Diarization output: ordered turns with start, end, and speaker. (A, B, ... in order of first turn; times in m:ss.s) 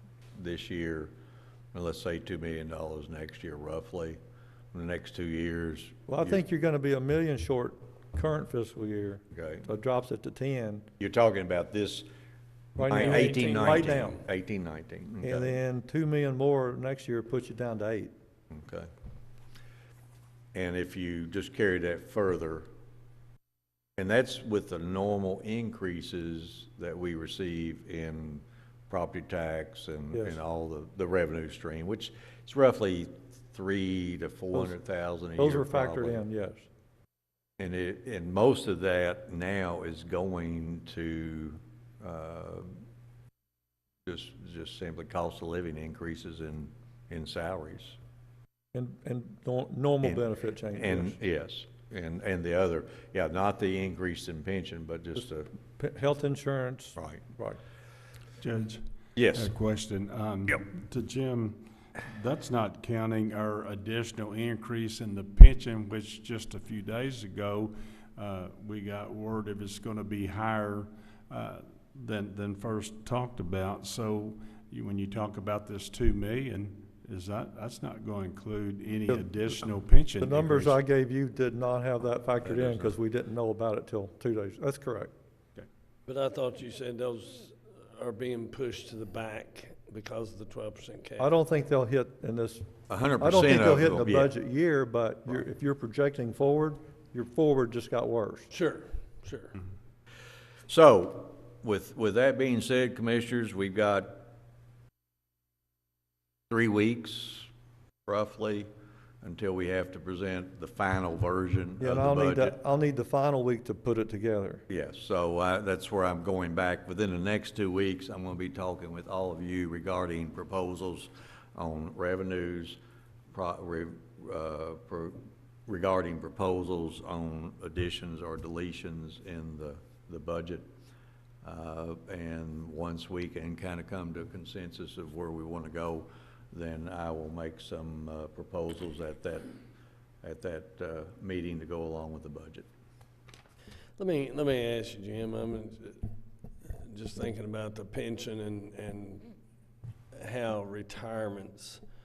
0:00.3-0:01.1 A
0:01.7-0:04.2 A
0:04.7-0:06.4 A
0:06.1-0:10.8 B
0:09.3-0:09.7 A
0:11.0-0:12.1 A
0:12.8-0:14.2 B
0:12.8-0:15.6 A
0:13.0-0:14.1 C
0:15.2-0:18.1 B
0:18.5-0:18.9 A
0:20.5-0:22.7 A
0:24.0-0:36.2 A
0:30.1-0:30.4 B
0:35.4-0:36.7 B
0:37.6-0:42.7 A
0:44.0-0:48.0 A
0:48.7-0:51.2 B
0:50.0-0:55.5 A
0:55.8-0:57.6 B
0:57.0-0:57.2 A
0:58.4-1:20.8 D
0:59.1-0:59.5 A
1:20.2-1:25.1 B
1:26.1-1:31.3 C
1:31.2-1:32.7 B
1:32.9-1:34.3 A
1:33.2-1:38.5 B
1:38.5-1:39.6 C
1:40.7-1:44.2 A
1:46.5-1:47.5 A
1:48.1-1:48.7 A
1:49.2-1:52.5 A
1:51.8-1:54.6 B
1:54.7-2:02.8 A
2:03.3-2:10.7 A
2:11.4-2:19.5 A
2:20.2-2:22.7 A
2:24.0-2:26.0 C
2:26.6-2:29.3 C
2:30.1-2:31.8 C